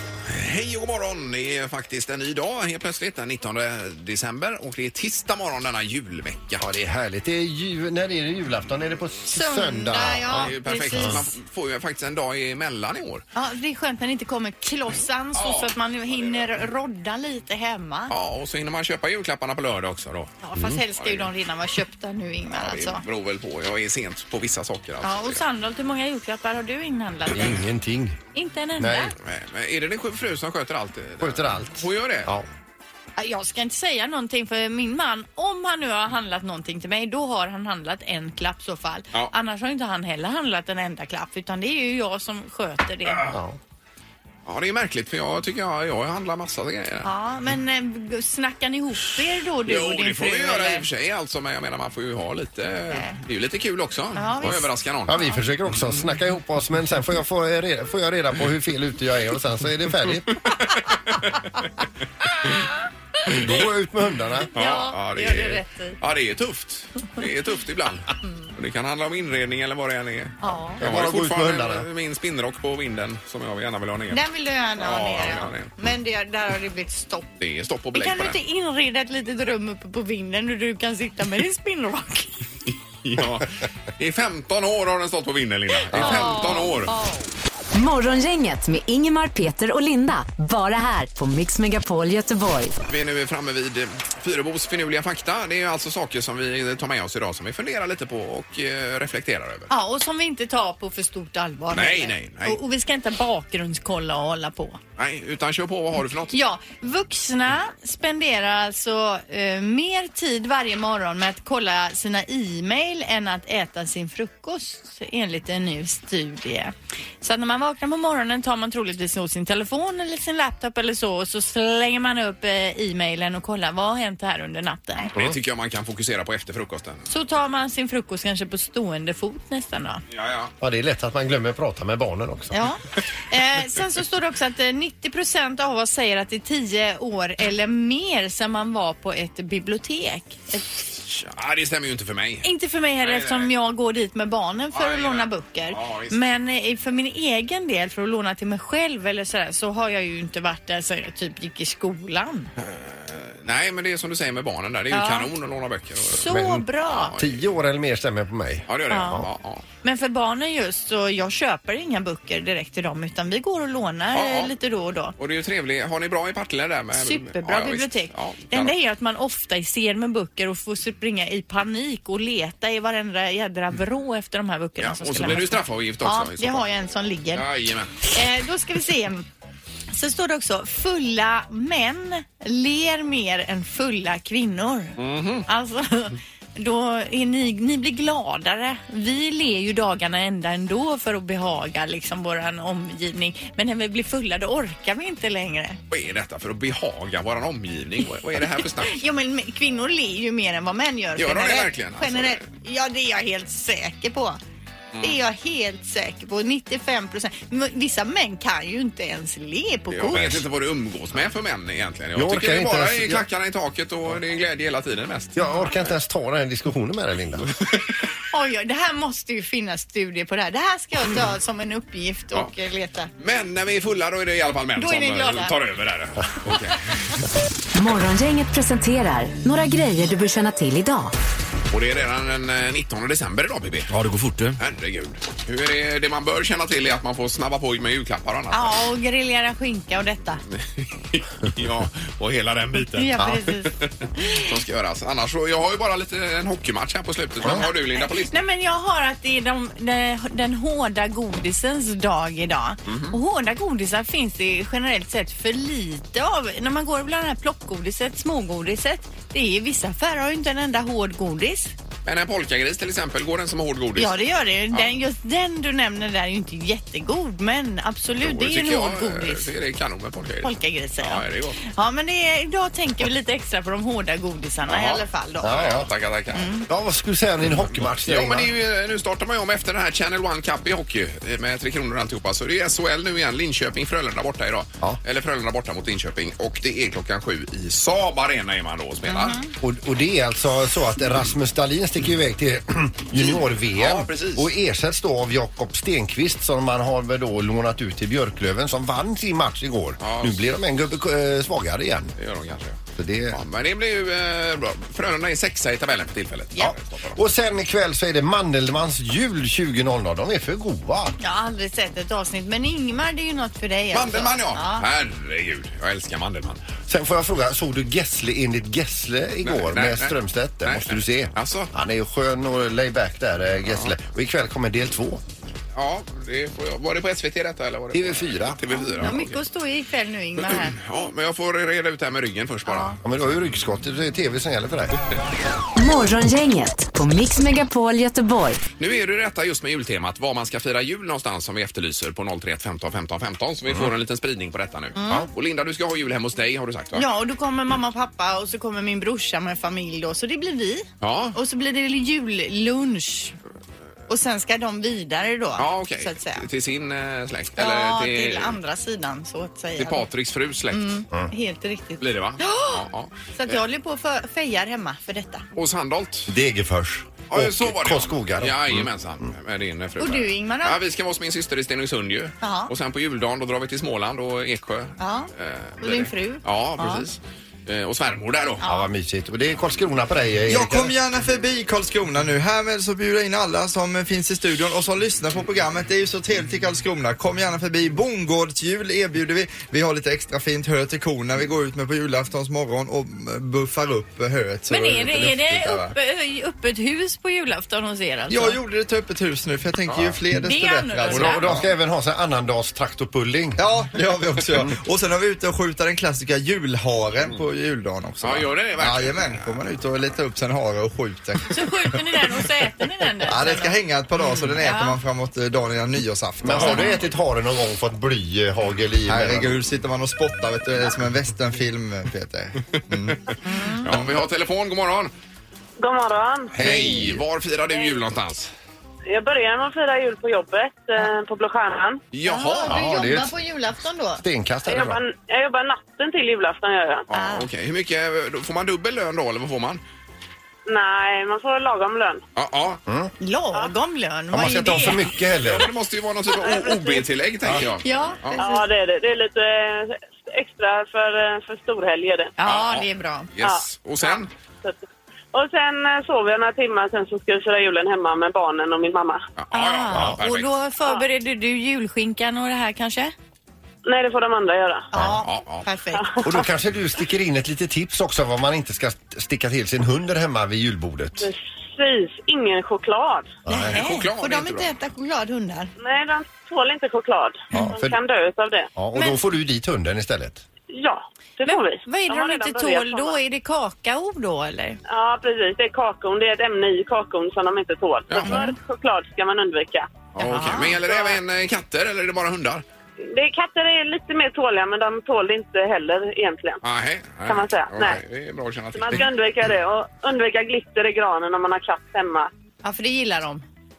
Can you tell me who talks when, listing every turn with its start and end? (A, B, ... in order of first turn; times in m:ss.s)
0:00.3-0:06.6 A
0:06.6-0:11.2 B
0:09.3-0:11.3 C
0:10.4-0:13.2 A
0:13.4-0:18.1 C
0:15.4-0:16.5 A
0:18.1-0:20.4 A
0:20.4-0:23.0 C
0:20.6-0:20.8 B
0:21.0-0:21.3 A
0:22.5-0:25.4 A
0:25.0-0:27.6 C
0:27.3-0:28.2 B
0:28.4-0:29.1 C
0:28.8-0:29.1 B
0:29.2-0:32.3 A
0:31.2-0:32.5 B
0:33.2-0:43.2 C
0:43.3-0:43.6 B
0:44.5-0:47.1 A
0:47.0-0:50.8 C
0:49.6-0:55.2 A
0:52.9-0:53.2 C
0:54.2-0:54.7 C
0:55.1-1:00.4 B
1:00.4-1:01.7 A
1:03.3-1:04.5 B
1:04.5-1:06.0 C
1:04.6-1:14.2 A
1:10.4-1:10.8 C
1:10.8-1:11.9 B
1:14.1-1:17.3 C
1:14.8-1:15.7 A
1:17.4-1:18.4 A
1:17.9-1:22.4 C
1:23.0-1:26.9 A
1:25.9-1:26.3 B
1:25.9-1:27.3 C
1:27.7-1:32.8 D
1:32.8-1:39.7 A
1:39.7-1:44.8 C
1:41.7-1:42.6 A
1:45.0-1:46.4 A
1:46.3-2:05.1 C
2:05.1-2:07.0 A
2:07.1-2:10.0 C
2:10.1-2:10.5 A
2:10.6-2:12.5 B
2:12.5-2:20.7 C
2:20.9-2:22.5 A
2:22.4-2:32.5 C
2:23.0-2:23.5 A
2:24.7-2:26.2 A
2:32.6-2:36.3 A
2:34.9-2:35.3 C
2:36.1-2:37.1 C
2:36.3-2:39.3 B
2:36.9-2:37.5 A
2:38.7-2:39.6 A
2:38.9-2:39.2 C
2:39.8-2:45.2 C
2:44.1-2:44.5 A
2:45.2-2:48.7 A
2:46.9-2:57.4 C
2:54.8-2:56.7 A
2:57.3-2:58.0 A
2:58.0-2:59.3 C
2:59.9-3:15.8 C
3:05.0-3:05.5 A
3:15.9-3:19.0 A
3:18.8-3:24.4 C
3:21.2-3:22.4 A
3:25.0-3:30.4 C
3:29.9-3:35.6 A
3:30.1-3:30.4 B
3:32.2-3:33.2 B
3:35.4-3:37.5 B
3:38.3-3:43.1 C
3:43.2-3:47.0 A
3:44.8-3:45.5 C
3:47.8-3:51.1 D
3:51.7-3:54.0 A
3:53.9-3:54.6 B
3:54.6-3:58.8 A
3:58.5-4:00.4 C
4:00.5-4:08.3 A
4:03.0-4:04.5 C
4:08.0-4:21.7 C
4:12.9-4:13.2 A
4:22.0-4:24.2 A
4:24.0-4:29.5 C
4:28.2-4:31.6 A
4:30.4-4:35.6 C
4:34.7-4:36.5 A
4:35.4-4:35.9 B
4:36.3-4:36.7 C
4:36.7-4:38.5 B
4:37.5-4:49.4 A
4:49.1-4:49.5 C
4:49.6-5:02.1 B
4:53.2-4:54.5 A
5:00.0-5:00.4 A
5:02.2-5:02.8 A
5:03.0-5:03.4 B
5:03.3-5:07.2 A
5:07.2-5:11.2 B
5:11.2-5:14.9 C
5:13.9-5:16.6 A
5:16.9-5:25.2 B
5:19.4-5:21.7 A
5:25.8-5:29.4 A
5:27.9-5:28.6 B
5:28.7-5:30.8 C
5:30.4-5:33.0 A
5:32.7-5:33.0 C
5:33.0-5:35.0 B
5:35.8-5:38.6 D
5:38.8-5:47.0 A
5:45.0-5:45.3 C
5:47.0-5:53.4 C
5:51.0-5:51.4 A
5:54.1-5:56.4 C
5:55.6-5:58.6 A
5:57.6-6:00.1 C
5:59.8-6:01.0 A
6:00.7-6:05.4 C
6:02.0-6:03.6 A
6:05.6-6:06.3 A
6:06.3-6:08.9 B
6:07.3-6:18.6 A
6:10.0-6:10.8 C
6:12.4-6:12.7 C
6:15.0-6:15.3 C
6:15.8-6:17.1 C
6:18.6-6:18.9 C
6:18.6-6:20.9 B
6:20.5-6:36.0 E
6:34.7-6:38.6 C
6:38.3-6:41.7 E
6:40.4-6:41.5 C
6:41.1-6:43.6 B
6:43.6-6:51.5 E
6:48.2-6:49.5 A
6:51.5-6:55.0 C
6:53.2-6:56.8 E
6:56.4-6:59.6 B
6:56.6-6:57.0 C
6:59.1-7:03.2 E
7:03.4-7:03.9 C
7:03.8-7:05.1 A
7:05.8-7:06.6 F
7:06.6-7:08.5 A
7:06.6-7:07.2 B
7:09.1-7:12.0 F
7:12.1-7:12.9 A
7:12.2-7:14.2 C
7:12.7-7:13.4 B
7:14.2-7:15.0 B
7:14.7-7:17.1 F
7:17.1-7:17.5 C
7:17.1-7:19.8 A
7:20.7-7:22.2 F
7:22.4-7:22.8 A
7:22.9-7:23.1 B
7:23.2-7:25.0 C
7:24.3-7:25.7 B
7:25.3-7:28.4 A
7:26.4-7:27.0 F
7:27.8-7:28.7 C
7:28.4-7:32.3 F
7:32.4-7:33.3 C
7:32.4-7:34.3 A
7:33.4-7:39.2 F
7:39.4-7:40.5 A
7:39.5-7:43.1 C
7:43.8-7:44.9 F
7:44.9-7:46.2 C
7:45.2-7:45.7 A
7:46.0-7:46.2 F
7:46.2-7:51.3 B
7:51.2-7:53.4 F
7:53.5-7:53.8 B
7:53.5-7:55.7 C
7:53.7-7:54.7 A
7:55.8-7:58.7 F
7:57.5-7:58.0 B
7:58.8-8:00.4 B
7:59.0-7:59.2 C
8:00.7-8:03.2 F
8:01.4-8:04.8 C
8:04.9-8:09.9 F
8:08.1-8:08.5 A
8:08.2-8:08.5 C
8:10.1-8:12.6 A
8:10.2-8:10.8 C
8:10.8-8:11.2 F
8:13.0-8:16.6 F
8:16.6-8:19.1 A
8:17.3-8:18.0 F
8:18.7-8:22.3 F
8:22.6-8:23.4 C